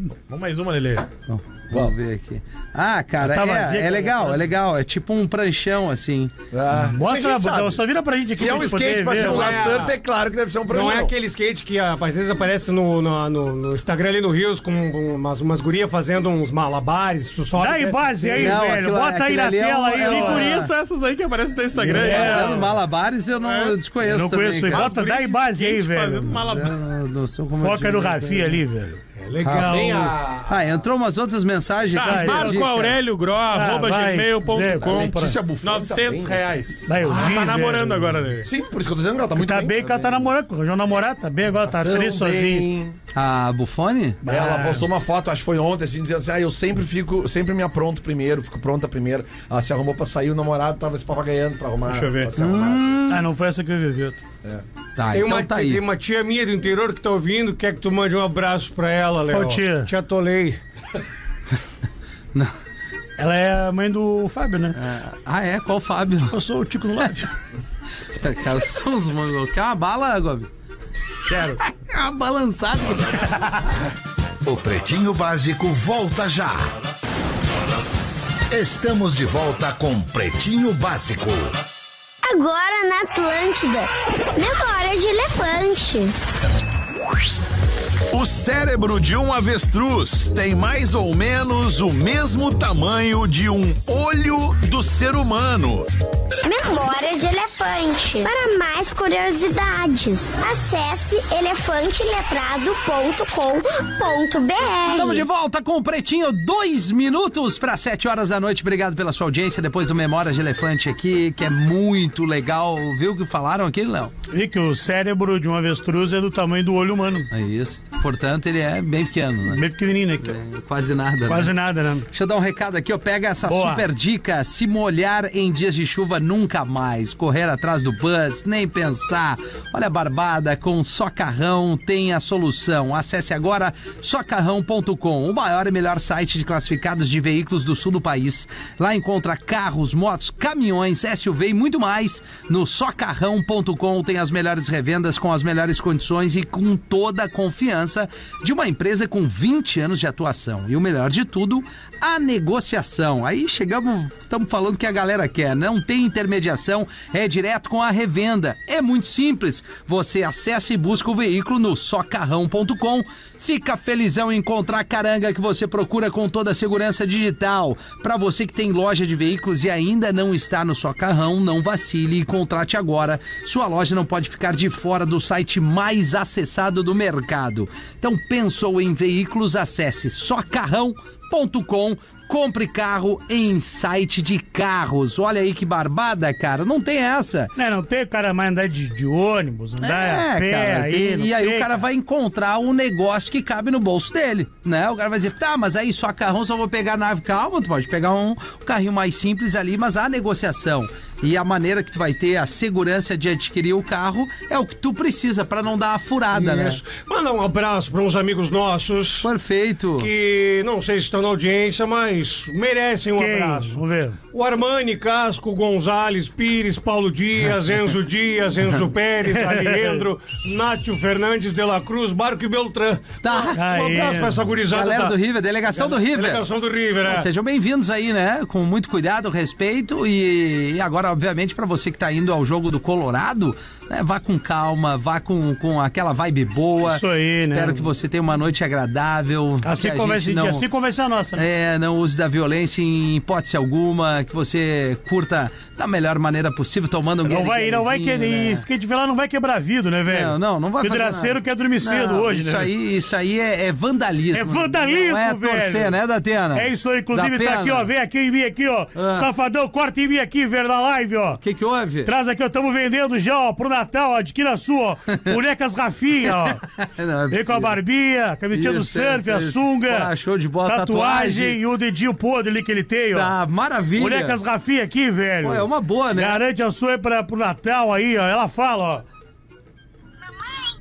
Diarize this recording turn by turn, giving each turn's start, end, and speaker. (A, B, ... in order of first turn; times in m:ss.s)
0:00.3-0:01.1 A
0:01.3-0:06.3 B
0:03.2-0:04.4 C
0:06.5-0:07.8 D
0:06.9-0:09.6 C
0:08.4-0:11.1 D
0:09.1-0:10.0 E
0:10.7-0:18.6 E
0:17.6-0:20.5 C
0:18.4-0:20.7 B
0:20.0-0:22.7 A
0:21.8-0:22.7 E
0:21.8-0:22.6 C
0:22.0-0:24.9 B
0:23.4-0:23.8 A
0:24.0-0:26.4 C
0:24.7-0:26.8 A
0:26.4-0:28.6 B
0:27.6-0:29.0 C
0:29.2-0:30.3 E
0:29.4-0:32.9 B
0:29.5-0:30.8 D
0:32.0-0:38.5 A
0:32.0-0:32.9 C
0:33.5-0:35.4 C
0:34.6-0:36.4 D
0:36.9-0:38.2 C
0:37.0-0:37.4 D
0:38.4-0:40.3 D
0:39.4-0:42.7 C
0:41.6-0:43.0 D
0:43.1-0:44.2 B
0:44.2-0:44.9 C
0:44.2-0:53.0 D
0:51.9-0:52.3 E
0:52.4-0:53.3 B
0:53.1-0:54.2 C
0:55.0-0:55.8 B
0:55.1-1:00.6 E
0:59.3-0:59.9 C
1:03.2-1:04.8 C
1:04.8-1:06.4 B
1:06.3-1:07.3 C
1:08.2-1:10.5 B
1:11.3-1:13.4 B
1:14.4-1:16.7 F
1:18.5-1:21.5 F
1:22.2-1:26.2 G
1:28.1-1:35.8 F
1:36.4-1:45.2 G
1:44.9-1:54.1 B
1:54.3-1:57.3 C
1:57.3-1:59.6 B
1:59.5-2:00.4 C
2:00.2-2:01.6 B
2:01.3-2:02.1 C
2:02.1-3:07.5 B
2:03.4-2:03.9 C
3:07.6-3:11.8 C
3:09.8-3:26.8 B
3:26.3-3:29.3 E
3:29.2-3:30.1 B
3:30.0-3:33.8 E
3:33.2-3:34.2 C
3:34.3-3:47.3 E
3:39.4-3:40.1 C
3:43.2-3:43.6 B
3:43.6-3:44.4 C
3:44.6-3:46.5 B
3:47.0-4:00.7 B
3:56.9-3:57.9 C
3:59.6-4:01.4 C
4:01.4-4:08.6 B
4:07.2-4:12.7 C
4:10.1-4:17.9 B
4:14.3-4:16.0 C
4:16.5-4:21.4 C
4:19.0-4:19.3 B
4:21.4-4:22.1 B
4:22.0-4:26.6 C
4:26.3-4:27.8 B
4:27.3-4:30.1 C
4:28.5-4:31.6 B
4:30.6-4:33.4 C
4:33.1-4:34.4 B
4:34.0-4:39.0 C
4:35.4-4:36.4 B